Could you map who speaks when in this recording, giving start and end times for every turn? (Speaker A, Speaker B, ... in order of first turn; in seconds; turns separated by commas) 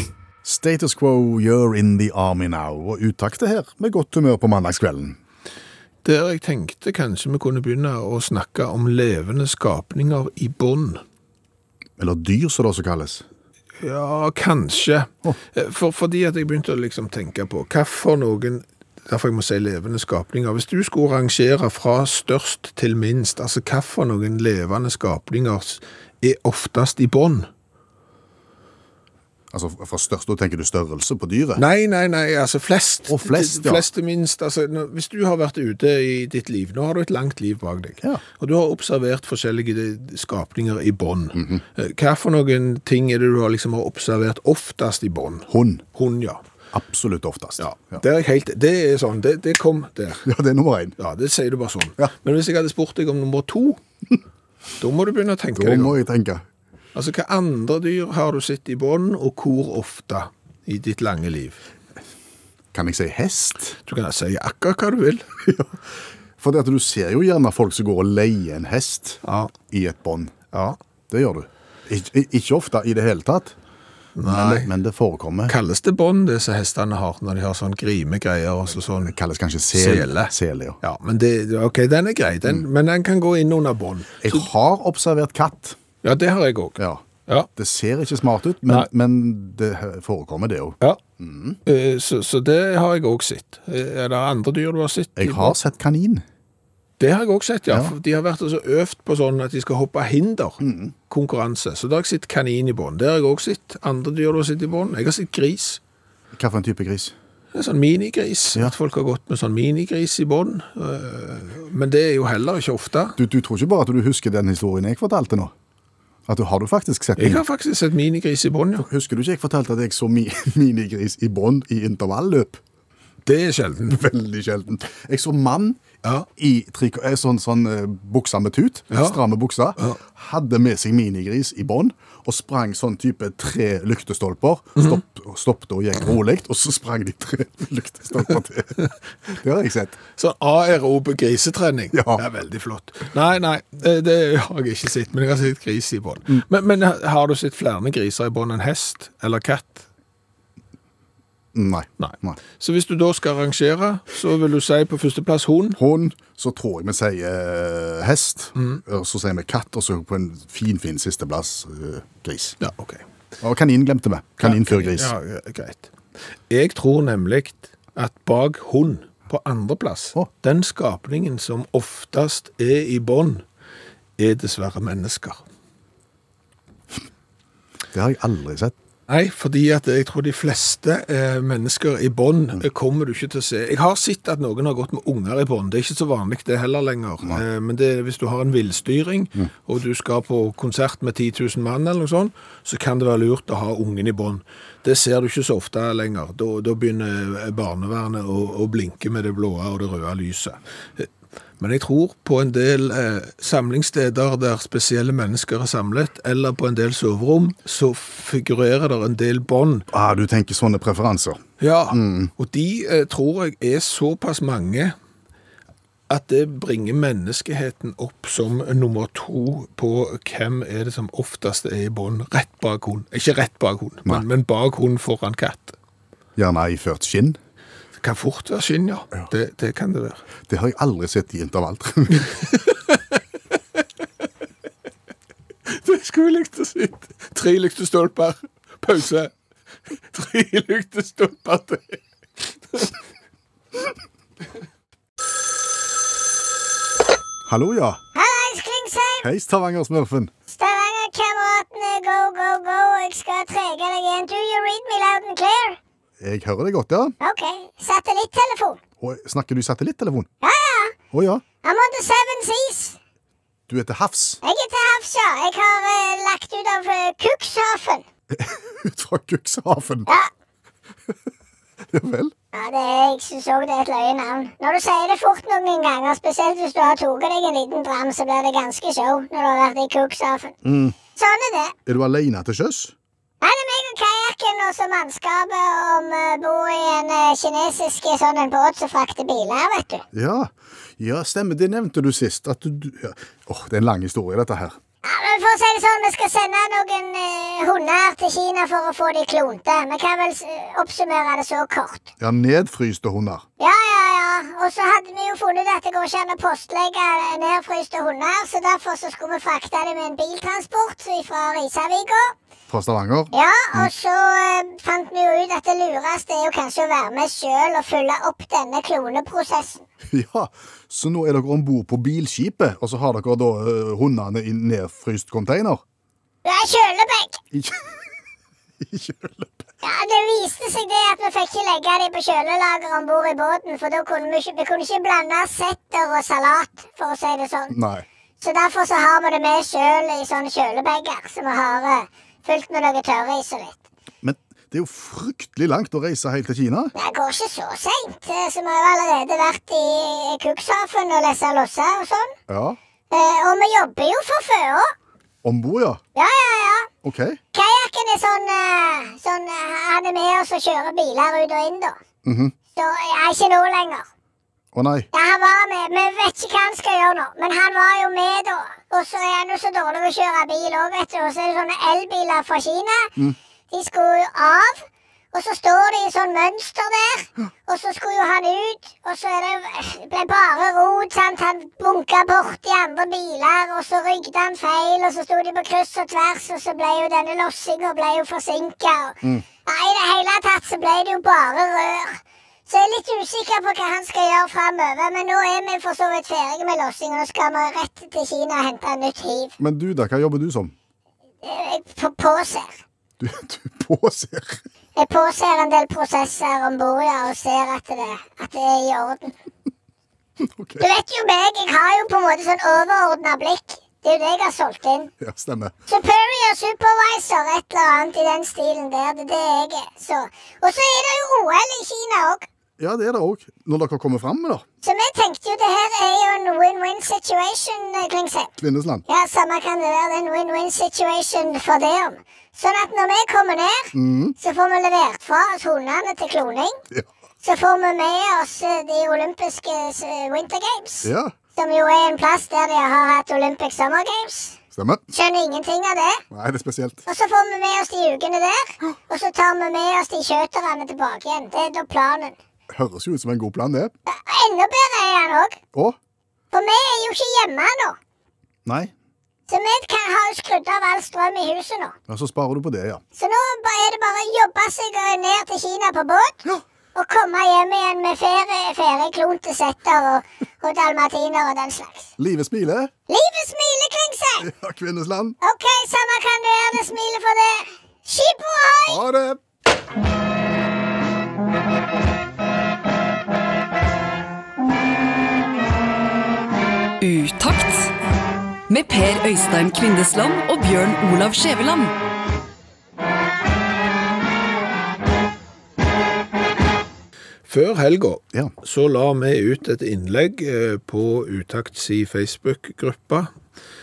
Speaker A: 0.4-5.2, Speaker B: 6.0-11.0, Speaker A: 12.0-13.2, Speaker B: 13.8-27.5, Speaker A: 29.5-31.6, Speaker B: 31.6-46.4, Speaker A: 33.1-33.9, Speaker A: 41.3-41.6, Speaker A: 45.5-45.8, Speaker A: 46.7-48.0, Speaker B: 47.6-50.2, Speaker A: 50.2-50.9, Speaker B: 51.0-53.8, Speaker B: 54.8-56.0, Speaker A: 55.5-56.4, Speaker B: 56.9-61.6, Speaker A: 62.7-63.8, Speaker B: 63.9-65.3, Speaker A: 65.4-65.8, Speaker A: 66.4-70.3, Speaker B: 69.2-69.5, Speaker B: 70.5-70.8, Speaker A: 71.1-73.5, Speaker B: 74.2-74.7, Speaker A: 74.2-75.5, Speaker B: 75.5-79.1, Speaker A: 78.8-80.8, Speaker B: 79.7-84.5, Speaker A: 84.2-85.8, Speaker B: 86.0-87.5, Speaker A: 86.8-87.0, Speaker A: 87.5-91.6, Speaker B: 91.7-95.5, Speaker A: 95.2-96.2, Speaker B: 97.0-105.8, Speaker A: 100.6-100.9, Speaker A: 106.3-107.1, Speaker B: 107.5-113.2, Speaker A: 113.2-115.5, Speaker A: 116.3-117.4, Speaker B: 117.2-118.9, Speaker A: 118.8-122.6, Speaker B: 123.2-124.0, Speaker A: 123.9-125.8, Speaker A: 126.4-140.0, Speaker B: 128.9-129.2, Speaker B: 140.2-149.8, Speaker A: 141.9-142.2, Speaker A: 151.5-152.4, Speaker B: 152.0-155.8, Speaker A: 155.8-162.6, Speaker B: 158.6-158.8, Speaker B: 162.6-163.0, Speaker A: 163.4-165.1, Speaker B: 164.4-165.9, Speaker B: 166.5-173.4, Speaker B: 174.2-175.4, Speaker A: 177.9-178.7, Speaker B: 179.1-201.1, Speaker B: 201.6-209.9, Speaker A: 209.9-212.3, Speaker B: 211.6-214.9, Speaker B: 216.1-225.8, Speaker A: 226.3-227.4, Speaker B: 228.0-230.2, Speaker A: 230.5-232.3, Speaker B: 232.1-233.2, Speaker B: 235.7-239.3, Speaker B: 240.1-242.0, Speaker A: 247.4-248.0, Speaker C: 248.1-249.3, Speaker A: 249.2-250.3, Speaker C: 250.5-255.8, Speaker A: 256.2-257.1, Speaker C: 257.2-258.8, Speaker A: 259.0-260.3, Speaker C: 260.4-260.9, Speaker A: 261.1-261.4, Speaker C: 261.6-263.0, Speaker A: 263.7-264.4, Speaker C: 264.4-268.0, Speaker A: 268.3-270.1, Speaker A: 271.9-272.3, Speaker C: 272.5-280.5, Speaker A: 280.6-280.9, Speaker C: 281.1-281.7, Speaker A: 281.9-282.9, Speaker C: 283.4-290.0, Speaker A: 290.1-294.8, Speaker C: 295.0-302.1, Speaker A: 302.2-303.4, Speaker C: 303.6-312.3, Speaker A: 312.7-313.9, Speaker C: 313.3-319.8, Speaker A: 320.1-325.8, Speaker C: 326.4-327.4, Speaker A: 327.5-328.1, Speaker A: 328.8-329.7, Speaker C: 329.8-337.8, Speaker A: 337.7-338.1, Speaker C: 338.4-343.8, Speaker A: 344.2-346.9, Speaker C: 346.9-352.3, Speaker A: 352.5-352.8, Speaker C: 353.1-354.9, Speaker A: 355.4-356.0, Speaker C: 356.1-356.9, Speaker A: 357.0-357.4, Speaker C: 357.5-361.9, Speaker A: 362.2-362.5, Speaker C: 362.8-364.1, Speaker A: 364.7-365.1, Speaker C: 365.1-373.1, Speaker C: 373.7-399.5, Speaker A: 399.6-400.7, Speaker C: 401.4-402.7, Speaker A: 403.2-404.6, Speaker C: 405.0-409.3, Speaker A: 410.4-410.8, Speaker C: 410.8-415.1, Speaker A: 415.2-415.7, Speaker C: 415.9-422.4, Speaker A: 422.8-424.6, Speaker C: 424.8-428.5, Speaker A: 428.6-429.0, Speaker C: 429.1-436.7, Speaker A: 433.9-434.3, Speaker C: 437.4-444.6, Speaker A: 441.0-441.3, Speaker A: 444.7-445.0, Speaker C: 445.1-446.2, Speaker A: 446.3-447.0, Speaker C: 447.1-452.4, Speaker A: 452.7-453.9, Speaker C: 454.1-455.6, Speaker C: 456.5-458.0, Speaker A: 458.6-458.9, Speaker C: 459.5-461.9, Speaker A: 462.1-463.0, Speaker C: 463.2-466.4, Speaker C: 466.9-472.1, Speaker A: 472.2-472.9, Speaker C: 473.1-474.5, Speaker A: 474.4-475.4, Speaker C: 475.4-479.0, Speaker A: 478.9-479.4, Speaker D: 487.0-487.9, Speaker D: 488.7-491.9, Speaker B: 497.4-503.3